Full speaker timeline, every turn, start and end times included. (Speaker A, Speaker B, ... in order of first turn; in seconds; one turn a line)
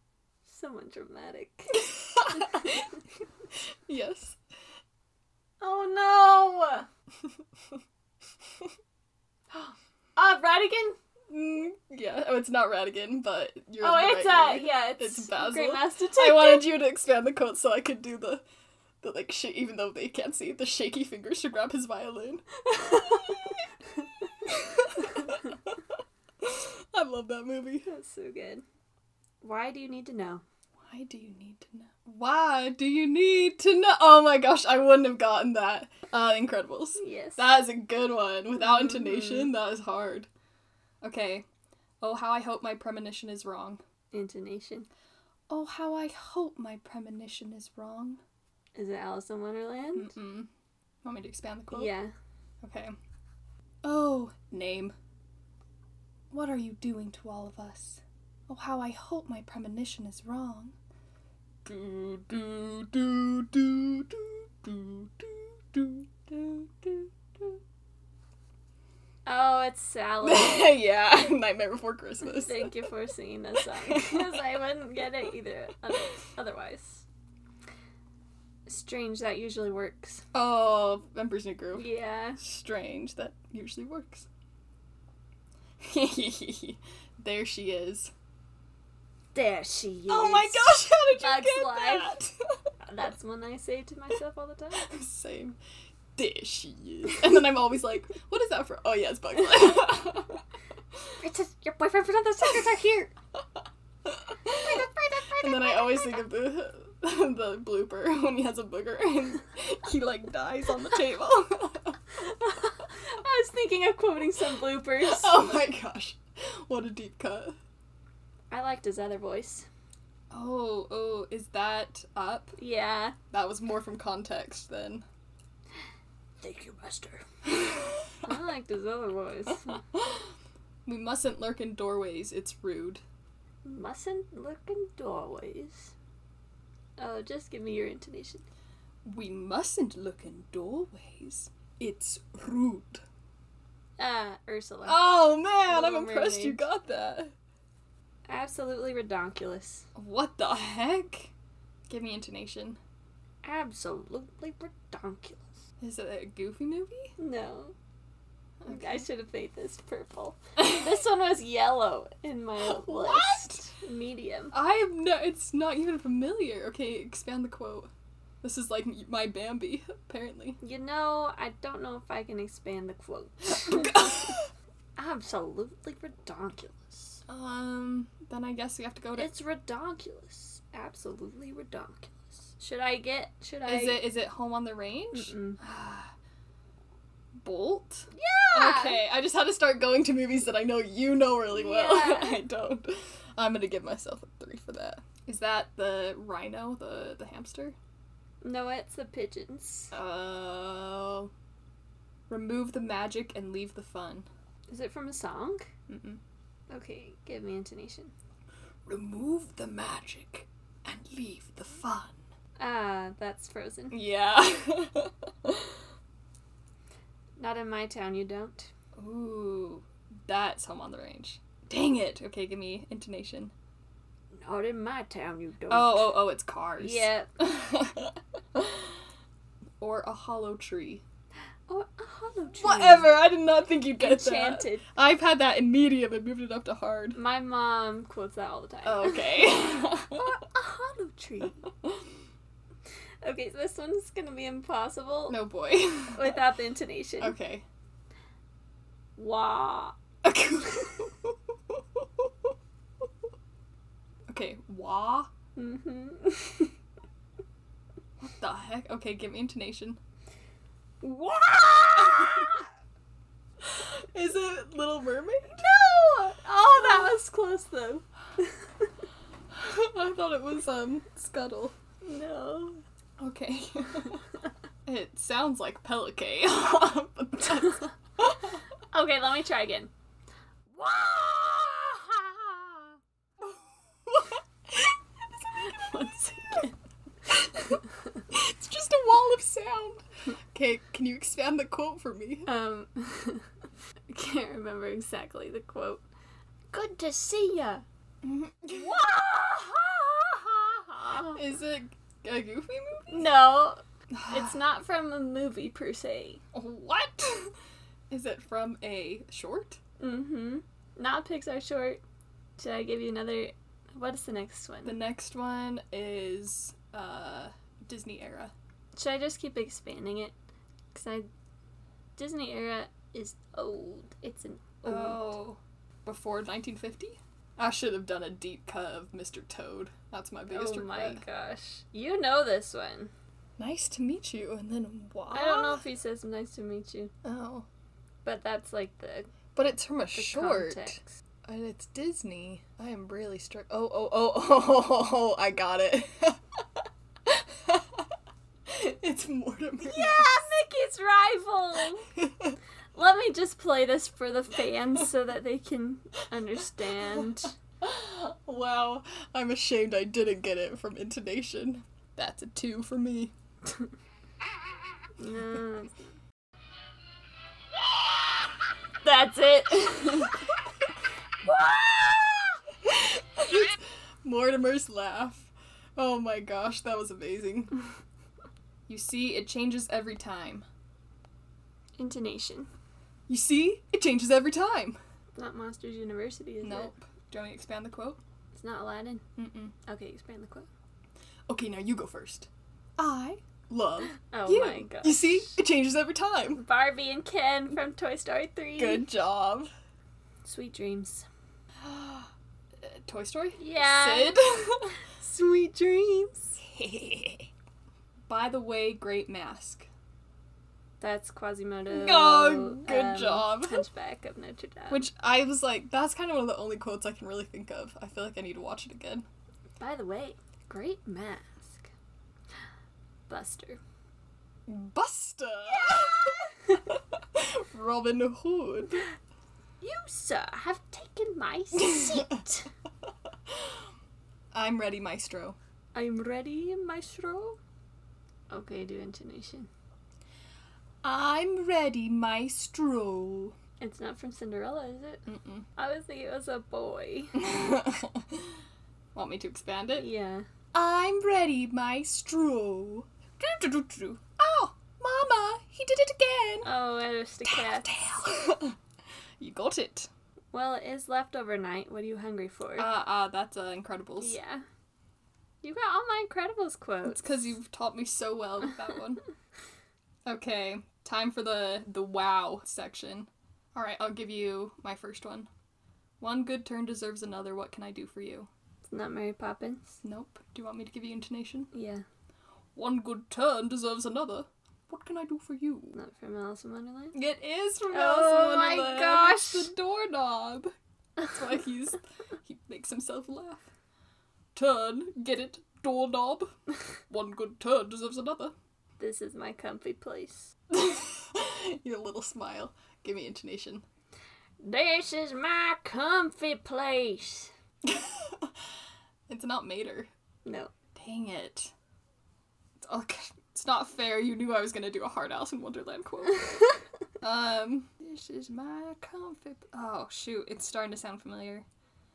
Speaker A: 0.4-2.8
Speaker B: 1.8-2.9
Speaker B: 3.9-4.4
Speaker A: 5.6-6.9
Speaker A: 9.5-11.0
Speaker B: 11.3-18.4
Speaker A: 13.8-16.7
Speaker B: 19.0-23.6
Speaker A: 22.9-23.3
Speaker B: 24.4-25.8
Speaker B: 26.4-27.9
Speaker A: 27.9-28.6
Speaker A: 29.4-30.4
Speaker B: 30.8-40.3
Speaker A: 37.0-37.5
Speaker A: 38.6-39.5
Speaker B: 41.0-41.4
Speaker B: 42.0-43.8
Speaker A: 44.1-44.9
Speaker B: 45.5-48.2
Speaker A: 48.7-50.1
Speaker B: 49.9-50.5
Speaker B: 51.0-51.9
Speaker A: 51.7-52.1
Speaker B: 52.6-52.9
Speaker B: 53.8-54.9
Speaker B: 56.3-60.7
Speaker B: 61.6-67.6
Speaker A: 69.2-70.7
Speaker B: 70.2-72.9
Speaker A: 72.2-77.0
Speaker B: 73.6-74.4
Speaker A: 78.7-80.2
Speaker B: 80.3-81.9
Speaker A: 81.7-82.4
Speaker B: 82.4-84.3
Speaker B: 85.8-88.1
Speaker A: 89.3-92.1
Speaker B: 90.1-92.3
Speaker A: 92.8-94.9
Speaker B: 94.8-95.6
Speaker B: 96.2-100.4
Speaker A: 101.2-103.1
Speaker B: 104.0-112.0
Speaker A: 104.5-106.2
Speaker A: 112.2-115.5
Speaker B: 115.0-117.5
Speaker A: 118.5-119.7
Speaker B: 120.3-122.5
Speaker A: 122.6-123.2
Speaker B: 123.3-125.0
Speaker A: 126.4-127.2
Speaker B: 127.5-127.9
Speaker A: 128.2-129.8
Speaker B: 129.9-130.2
Speaker B: 130.8-133.0
Speaker A: 133.6-135.9
Speaker A: 137.0-138.4
Speaker B: 139.0-143.0
Speaker A: 144.0-145.0
Speaker B: 144.8-147.3
Speaker A: 145.7-146.6
Speaker A: 148.3-149.9
Speaker B: 149.9-151.3
Speaker B: 151.9-152.8
Speaker A: 153.4-155.6
Speaker B: 155.8-157.1
Speaker A: 157.2-157.7
Speaker B: 158.6-159.1
Speaker A: 158.7-164.5
Speaker B: 160.6-160.9
Speaker B: 162.6-163.6
Speaker B: 164.5-167.9
Speaker B: 168.4-170.6
Speaker A: 170.6-174.3
Speaker B: 173.5-174.5
Speaker A: 175.0-177.2
Speaker B: 177.3-179.3
Speaker A: 179.2-184.1
Speaker B: 183.7-186.1
Speaker A: 185.1-185.6
Speaker B: 187.4-197.8
Speaker A: 188.1-189.0
Speaker A: 191.5-192.4
Speaker A: 198.4-199.9
Speaker B: 199.9-201.3
Speaker B: 202.3-204.3
Speaker A: 204.7-205.7
Speaker B: 205.9-206.2
Speaker A: 206.7-208.1
Speaker B: 208.9-212.2
Speaker A: 212.6-214.0
Speaker B: 213.9-215.8
Speaker A: 217.4-218.7
Speaker B: 218.9-223.5
Speaker A: 224.3-226.2
Speaker B: 225.7-229.0
Speaker A: 226.8-227.3
Speaker B: 229.8-231.0
Speaker A: 231.7-233.1
Speaker B: 232.6-237.2
Speaker A: 234.0-234.8
Speaker A: 237.1-239.5
Speaker B: 238.8-240.3
Speaker A: 240.1-241.6
Speaker A: 243.2-245.4
Speaker B: 245.3-246.4
Speaker A: 246.1-247.3
Speaker B: 247.2-247.6
Speaker A: 249.2-249.9
Speaker B: 250.2-252.5
Speaker B: 254.3-255.3
Speaker A: 255.6-256.7
Speaker B: 258.2-260.0
Speaker A: 261.0-262.6
Speaker B: 262.0-262.5
Speaker B: 263.6-265.6
Speaker A: 265.5-268.9
Speaker B: 266.7-267.1
Speaker B: 269.5-271.8
Speaker A: 272.0-272.8
Speaker B: 273.2-274.3
Speaker B: 274.9-278.6
Speaker A: 278.9-279.9
Speaker A: 280.7-282.9
Speaker B: 283.4-284.9
Speaker A: 285.5-286.7
Speaker B: 287.3-292.5
Speaker A: 292.5-293.4
Speaker A: 294.1-296.0
Speaker A: 296.7-297.8
Speaker B: 298.2-299.1
Speaker A: 298.7-301.4
Speaker B: 301.3-303.3
Speaker A: 303.1-306.4
Speaker B: 304.1-304.6
Speaker B: 306.5-307.5
Speaker B: 308.1-309.8
Speaker A: 310.0-312.0
Speaker A: 312.6-315.0
Speaker B: 314.8-318.5
Speaker A: 318.9-320.3
Speaker A: 320.9-321.3
Speaker A: 322.2-325.4
Speaker B: 324.8-331.2
Speaker A: 330.5-333.1
Speaker B: 333.6-335.8
Speaker A: 335.3-337.1
Speaker B: 337.2-337.6
Speaker A: 338.2-339.3
Speaker B: 339.5-346.6
Speaker A: 340.1-341.1
Speaker B: 347.2-348.1
Speaker B: 348.7-350.4
Speaker A: 349.8-352.1
Speaker B: 352.1-352.6
Speaker A: 352.9-357.5
Speaker B: 357.0-357.3
Speaker B: 357.8-363.3
Speaker A: 365.2-366.1
Speaker A: 369.0-370.4
Speaker A: 371.4-372.6
Speaker B: 372.8-377.7
Speaker B: 378.9-380.6
Speaker A: 382.0-382.7
Speaker B: 383.3-385.0
Speaker A: 385.3-386.9
Speaker B: 386.6-388.2
Speaker A: 388.5-389.2
Speaker B: 389.4-389.7
Speaker A: 389.9-390.7
Speaker B: 391.5-396.6
Speaker A: 394.3-395.6
Speaker A: 396.6-399.1
Speaker B: 398.8-399.7
Speaker A: 400.4-401.3
Speaker B: 401.8-402.3
Speaker B: 402.8-404.9
Speaker A: 403.6-404.4
Speaker A: 405.1-406.6
Speaker B: 406.6-407.5
Speaker B: 408.3-409.9
Speaker A: 411.0-415.1
Speaker B: 411.9-413.8
Speaker B: 414.9-419.2
Speaker A: 419.8-421.9
Speaker A: 423.3-423.8
Speaker B: 424.7-429.1
Speaker A: 429.8-432.7
Speaker B: 431.8-432.3
Speaker B: 433.5-433.8
Speaker B: 434.5-435.6
Speaker A: 435.9-437.6
Speaker A: 438.5-439.7
Speaker B: 441.0-443.5
Speaker A: 443.8-447.4
Speaker B: 445.2-445.6
Speaker B: 447.4-448.5
Speaker B: 449.1-450.1
Speaker A: 450.0-450.4
Speaker B: 450.7-456.7
Speaker A: 456.6-458.2
Speaker B: 457.4-458.8
Speaker B: 459.4-460.1
Speaker A: 460.5-462.9
Speaker B: 462.8-464.4
Speaker A: 464.2-464.6
Speaker A: 465.6-467.2
Speaker B: 467.1-469.2
Speaker B: 470.2-475.5
Speaker B: 476.2-478.5
Speaker A: 478.9-480.0
Speaker B: 480.0-481.7
Speaker A: 481.7-482.0
Speaker B: 482.8-486.0
Speaker A: 485.9-487.1
Speaker B: 487.1-490.7
Speaker A: 487.9-489.7
Speaker B: 491.3-493.6
Speaker B: 494.5-496.5
Speaker B: 497.1-498.5
Speaker A: 499.0-500.5
Speaker B: 500.7-503.8
Speaker A: 504.6-507.5
Speaker B: 507.8-508.5
Speaker B: 509.3-510.1
Speaker A: 510.4-510.7
Speaker B: 510.9-511.7
Speaker B: 512.8-516.6
Speaker B: 517.2-521.6